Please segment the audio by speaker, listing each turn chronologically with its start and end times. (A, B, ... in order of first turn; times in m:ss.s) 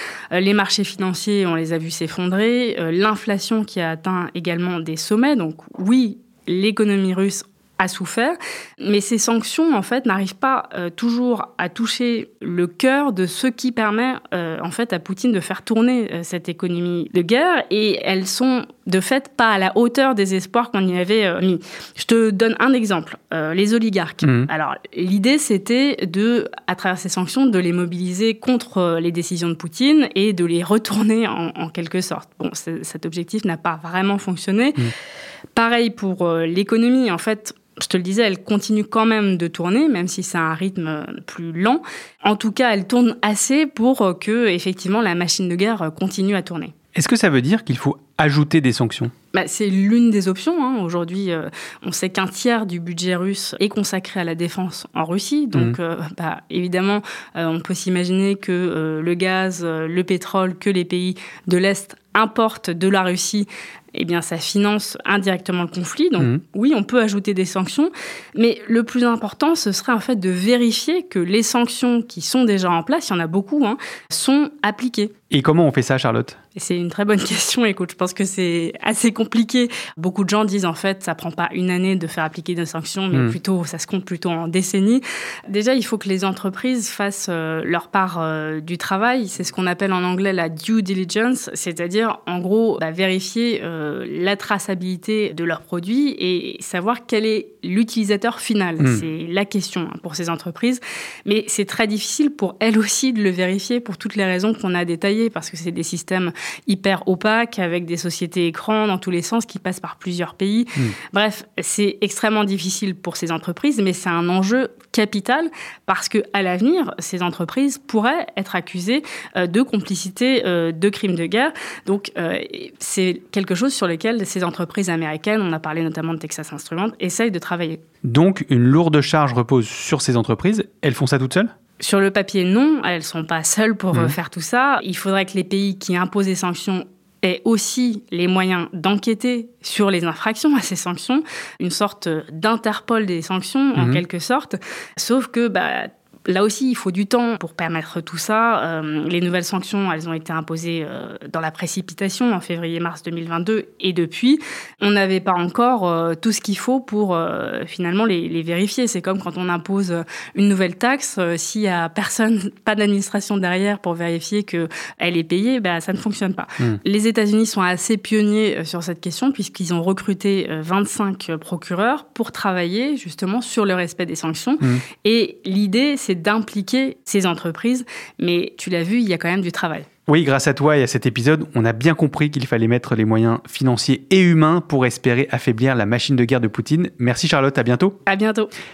0:00.3-0:34.8 A
0:24.2-0:24.5 B
0:35.5-0:46.7 A
0:46.9-0:49.1 B
0:49.3-1:15.1 A
1:15.3-1:16.4 B
1:16.5-2:07.8 A
2:08.0-2:11.5 B
2:11.8-2:59.8 A
2:23.8-2:24.0 B
3:00.1-3:08.0 B
3:08.0-3:08.5 A